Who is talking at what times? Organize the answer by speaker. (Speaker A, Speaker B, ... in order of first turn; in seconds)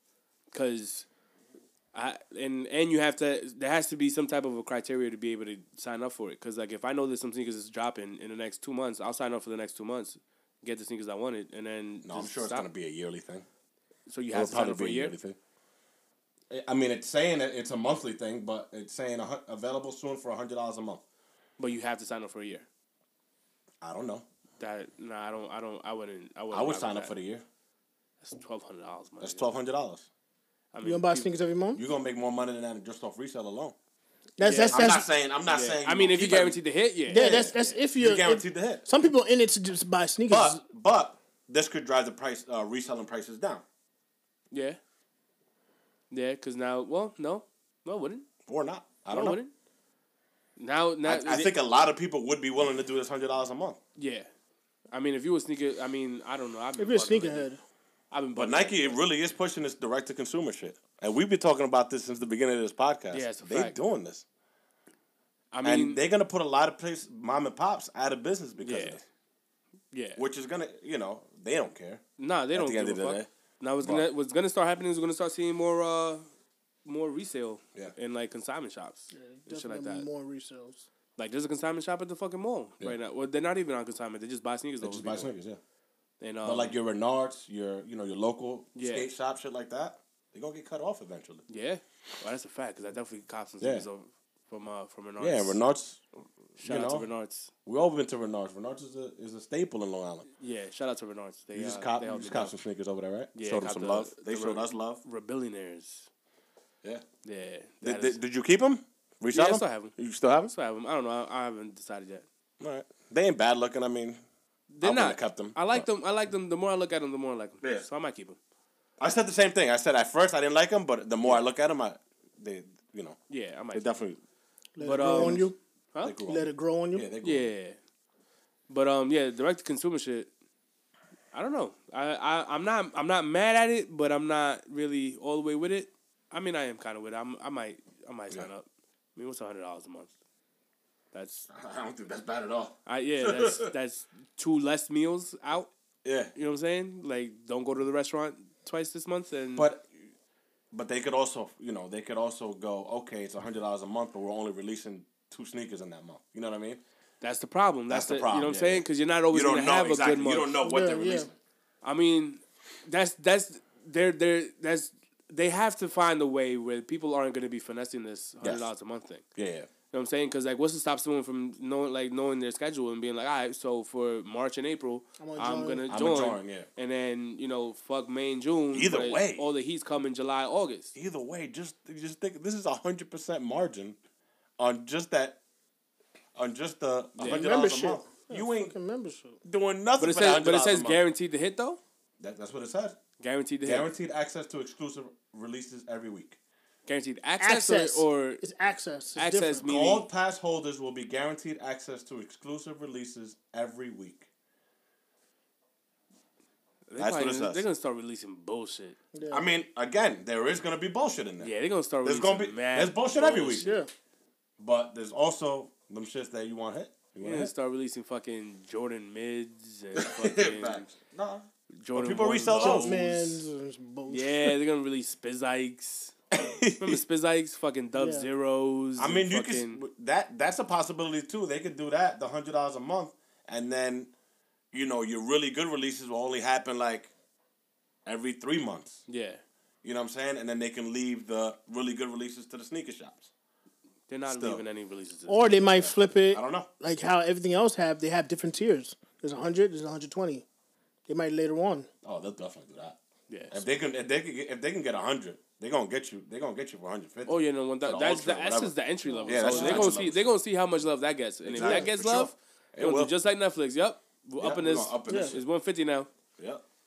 Speaker A: 0.5-1.1, 1.9-12.7, 14.1-15.2, 21.6-22.7, 24.6-27.1, 28.2-29.5, 30.7-31.3, 34.4-34.9, 35.5-37.8, 44.5-44.8, 46.1-48.3, 49.1-49.5, 50.6-51.5, 54.0-54.3, 54.9-57.5, 58.1-59.0, 63.1-63.8, 65.5-66.0, 68.6-69.0, 69.9-70.2, 72.2-76.3, 76.8-80.1, 81.2-85.3, 86.2-86.8, 88.8-89.1, 91.5-95.6, 96.6-97.5, 100.4-102.5, 103.3-106.1, 107.2-108.2, 109.3-110.0, 110.5-112.3, 114.7-118.4, 123.3-123.9, 124.8-126.2, 127.2-127.8, 128.7-130.3, 131.3-140.1, 141.1-141.5, 142.9-145.7, 146.3-149.7, 157.2-160.6, 161.8-169.2, 169.9-180.9, 187.2-187.4, 190.0-191.8, 193.2-193.9, 196.9-198.4, 199.2-200.1, 206.9-209.0, 211.4-213.8, 217.2-220.9, 221.7-223.0, 224.1-226.2, 226.8-229.8, 239.1-239.4, 244.1-245.9, 253.3-253.6, 257.3-266.1
Speaker B: 12.0-13.5, 14.3-15.4, 16.5-21.0, 23.8-24.2, 26.5-27.4, 29.2-30.1, 31.8-33.8, 34.7-38.9, 40.3-43.6, 48.5-49.4, 51.0-53.8, 58.4-64.2, 65.6-69.0, 70.2-72.0, 72.5-73.3, 73.8-74.1, 84.8-85.6, 86.4-91.5, 93.6-93.9, 95.2-96.0, 96.6-97.1, 97.7-100.3, 101.5-105.0, 107.8-110.5, 112.6-114.2, 114.8-115.9, 117.6-117.9, 119.0-123.2, 123.7-124.2, 125.0-125.5, 126.0-127.5, 141.5-143.7, 146.0-146.3, 149.6-150.1, 150.7-156.8, 157.9-161.3, 168.4-168.7, 169.3-169.7, 175.9-176.7, 178.7-179.5, 180.9-184.0, 184.6-185.4, 186.4-188.8, 189.4-191.0, 192.2-193.0, 193.6-196.4, 199.6-204.3, 207.0-207.7, 209.3-211.5, 212.0-213.7, 214.6-217.5, 219.9-223.5, 226.3-227.0, 229.0-234.1, 234.7-237.1, 238.1-239.0, 239.8-243.3, 244.3-244.6, 245.9-246.7, 252.0-253.0, 253.5-260.3, 261.4-263.1, 264.4-265.4
Speaker C: 30.8-31.8, 34.4-35.1, 37.1-40.6, 56.8-57.6, 79.1-80.8, 124.8-125.6, 126.3-127.1, 160.6-161.3, 175.2-175.8, 187.2-189.4, 197.4-199.7, 209.1-209.4, 213.6-213.9, 222.4-224.5, 227.9-228.3, 245.3-250.4, 251.1-251.9, 259.1-259.9, 261.6-261.9, 265.1-265.3